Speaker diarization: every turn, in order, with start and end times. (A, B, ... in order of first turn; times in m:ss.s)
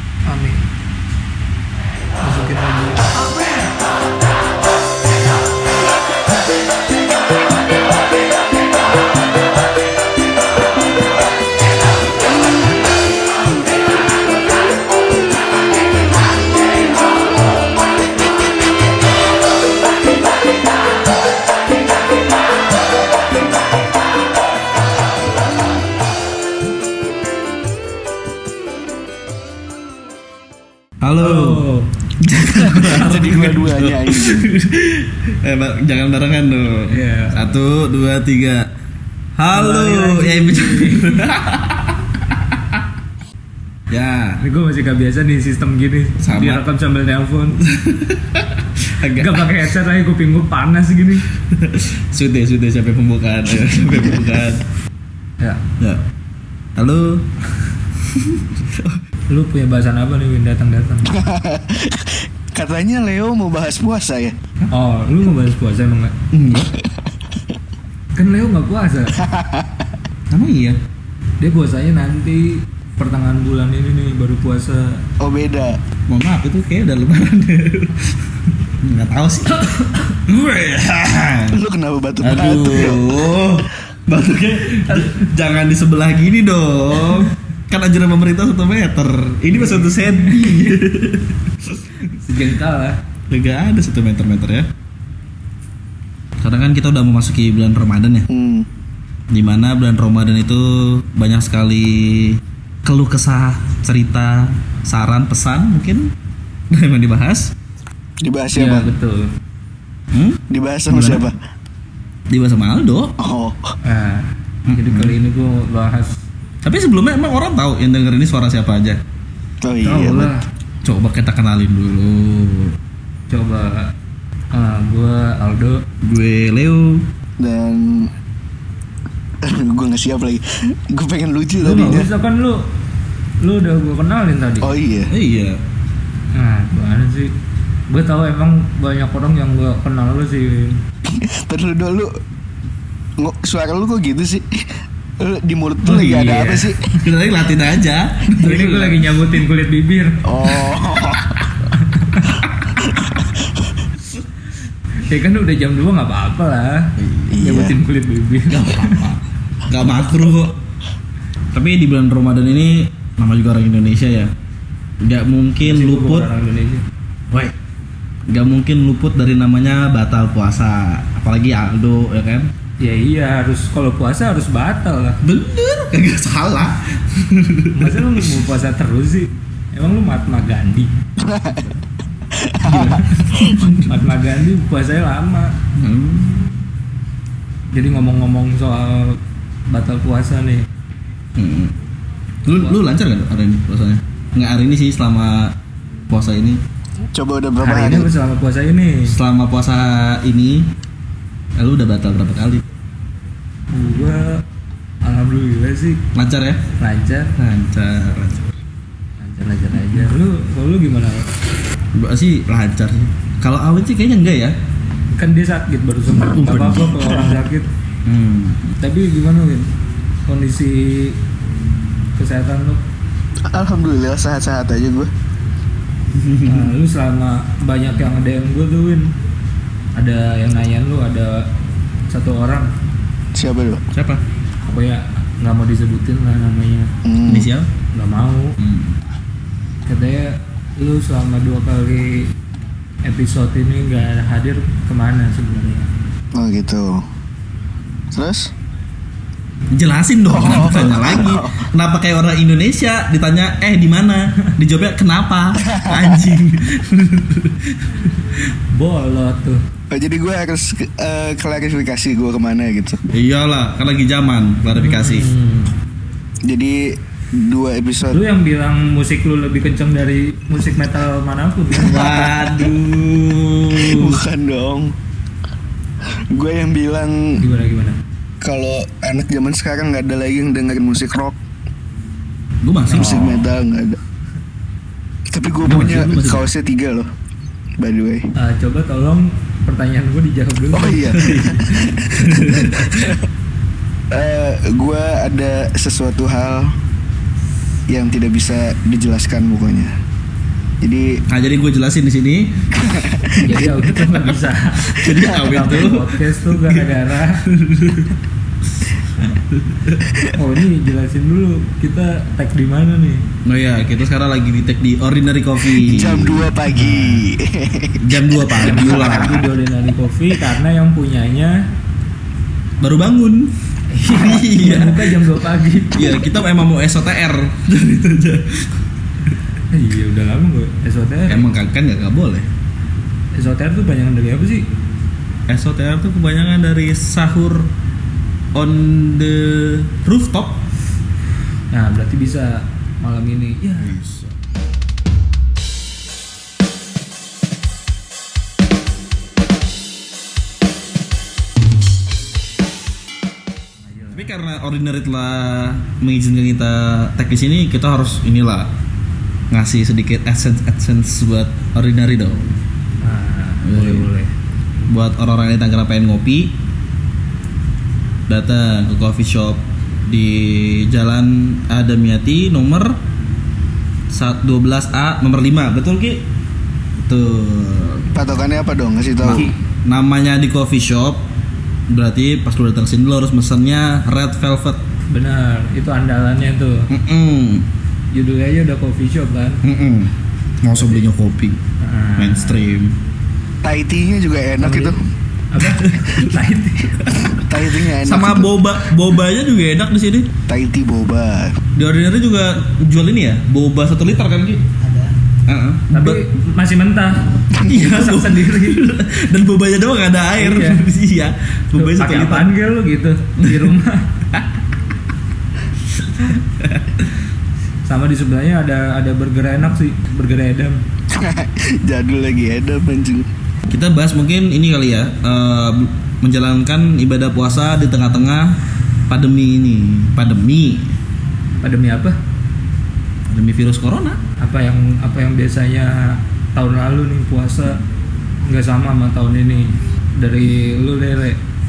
0:00.2-0:00.7 A
0:02.2-0:03.5 A
0:31.0-0:31.6 B
0:31.2-0:31.9 A
0:32.2-0:38.7 B
0:32.5-0:34.5 C
0:33.0-0:33.4 A
0:36.9-0:37.5 A
0:39.4-0:42.8 B
0:39.5-0:41.3 A
0:43.9-0:44.4 B
0:44.4-0:47.6 A
0:46.2-0:46.6 B
0:47.6-0:49.6 B
0:49.2-0:51.2 A
0:51.5-0:54.6 B
0:56.8-0:57.3 B
0:58.1-0:59.0 B
0:59.3-1:01.1 A
1:01.0-1:04.4 C
1:04.7-1:06.2 A
1:06.3-1:06.7 B
1:08.2-1:09.2 A
1:09.1-1:09.9 C
1:10.3-1:10.8 B
1:11.4-1:15.0 A
1:15.2-1:15.8 C
1:16.1-1:18.1 B
1:18.8-1:21.6 B
1:21.5-1:23.1 C
1:22.2-1:31.9 B
1:24.8-1:25.3 A
1:29.5-1:30.7 A
1:32.0-1:33.0 A
1:33.3-1:34.7 B
1:36.4-1:38.3 B
1:38.3-1:38.7 C
1:39.3-1:46.1 B
1:46.7-1:47.5 B
1:48.2-1:48.9 C
1:48.5-1:49.3 A
1:50.1-1:51.2 B
1:50.5-1:51.4 C
1:52.3-1:53.2 B
1:53.2-1:53.8 C
1:53.8-1:56.2 A
1:54.7-1:55.1 B
1:56.6-1:59.0 B
1:59.6-2:00.3 C
1:59.8-2:00.4 A
2:00.8-2:02.7 B
2:03.3-2:03.9 A
2:04.5-2:05.8 A
2:06.0-2:07.1 B
2:07.4-2:08.1 C
2:09.4-2:12.1 C
2:11.6-2:12.7 A
2:13.4-2:14.7 A
2:14.6-2:15.1 C
2:15.1-2:15.6 B
2:16.3-2:17.3 A
2:17.9-2:20.8 A
2:21.0-2:22.1 C
2:23.2-2:26.9 C
2:25.8-2:26.9 A
2:26.9-2:29.0 B
2:28.4-2:30.2 A
2:30.2-2:31.5 C
2:31.7-2:32.3 A
2:32.8-2:33.6 C
2:35.1-2:39.1 A
2:37.0-2:37.4 B
2:37.3-2:37.8 C
2:38.5-2:40.6 B
2:41.5-2:44.3 B
2:45.0-2:46.3 B
2:45.6-2:46.8 A
2:48.3-2:52.5 B
2:52.8-2:55.2 A
2:55.2-2:58.3 B
2:57.7-3:00.9 A
3:01.2-3:03.6 C
3:02.7-3:05.6 A
3:03.3-3:04.0 B
3:05.8-3:06.5 B
3:07.7-3:10.7 A
3:11.4-3:11.8 B
3:12.4-3:15.6 B
3:16.1-3:16.6 B
3:17.1-3:18.1 C
3:17.6-3:19.1 A
3:19.1-3:20.7 B
3:21.6-3:22.6 B
3:23.7-3:24.4 A
3:25.0-3:26.0 A
3:26.1-3:26.6 B
3:26.8-3:27.3 A
3:27.4-3:28.6 B
3:29.2-3:31.3 A
3:31.9-3:34.6 B
3:35.1-3:37.7 A
3:36.3-3:37.3 B
3:38.0-3:38.8 B
3:38.8-3:39.7 A
3:40.3-3:41.2 A
3:42.2-3:42.8 A
3:43.4-3:45.1 C
3:46.1-3:46.7 B
3:46.4-3:49.1 A
3:49.9-3:51.5 A
3:52.1-3:52.7 A
3:53.3-3:53.8 C
3:53.9-3:54.2 B
3:54.6-3:56.9 A
3:57.0-3:57.5 C
3:57.2-3:57.7 B
3:57.9-3:58.6 A
3:58.6-3:58.9 B
3:59.8-4:02.3 A
4:03.0-4:05.9 A
4:06.3-4:07.1 C
4:08.1-4:08.5 C
4:09.7-4:18.0 B
4:10.3-4:11.6 C
4:15.6-4:16.3 C
4:18.7-4:19.6 A
4:19.9-4:23.0 C
4:23.1-4:25.3 B
4:24.8-4:25.7 A
4:26.4-4:28.2 C
4:28.1-4:32.2 A
4:31.7-4:34.1 B
4:31.9-4:32.3 C
4:33.7-4:35.0 C
4:33.9-4:34.2 A
4:36.1-4:37.4 C
4:37.4-4:38.0 A
4:38.4-4:41.4 C
4:42.6-4:43.4 B
4:42.9-4:43.5 A
4:42.9-4:44.0 C
4:45.3-4:47.1 C
4:45.6-4:46.5 B
4:47.8-4:48.3 C
4:48.4-4:51.2 A
4:50.7-4:53.2 C
4:51.1-4:53.2 B
4:54.1-4:56.8 C
4:57.9-5:00.0 C
5:00.8-5:01.2 C
5:01.3-5:02.6 B
5:02.7-5:03.8 C
5:03.4-5:07.4 A
5:04.9-5:08.1 B
5:05.0-5:05.4 C
5:09.2-5:10.1 B
5:10.2-5:13.2 A
5:13.4-5:16.5 B
5:15.7-5:19.4 C
5:16.7-5:17.3 A
5:18.0-5:19.4 B
5:18.6-5:21.7 A
5:22.8-5:23.5 B
5:23.9-5:26.2 A
5:24.1-5:25.3 B
5:25.9-5:28.7 B
5:29.7-5:31.5 A
5:31.3-5:32.5 B
5:33.3-5:34.7 A
5:35.5-5:37.7 B
5:38.5-5:40.6 B
5:41.7-5:43.9 A
5:43.8-5:44.4 B
5:53.8-5:54.3 A
5:54.1-5:58.7 B
5:59.5-6:02.5 B
6:03.0-6:04.3 A
6:03.6-6:04.1 B
6:04.9-6:06.6 B
6:08.3-6:13.0 B
6:14.1-6:16.2 B
6:17.0-6:18.1 B
6:18.1-6:19.5 C
6:19.2-6:21.3 B
6:21.9-6:24.8 B
6:25.1-6:26.9 A
6:26.9-6:27.7 B
6:28.1-6:29.6 A
6:29.6-6:31.6 B
6:31.8-6:32.7 A
6:32.2-6:33.0 B
6:33.6-6:35.0 C
6:34.6-6:35.0 A
6:35.5-6:37.0 A
6:35.6-6:36.3 B
6:37.3-6:38.6 C
6:37.9-6:40.3 B
6:40.5-6:41.6 C
6:41.7-6:44.7 B
6:45.4-6:46.2 B
6:45.9-6:48.8 A
6:47.6-6:52.5 B
6:50.4-6:50.8 A
6:51.8-6:54.1 A
6:53.4-6:53.7 B
6:56.0-6:57.0 B
6:57.8-7:00.8 A
7:01.1-7:03.3 C
7:03.7-7:11.0 B
7:11.6-7:12.2 A
7:13.3-7:14.2 B
7:14.4-7:17.8 A
7:18.4-7:21.4 A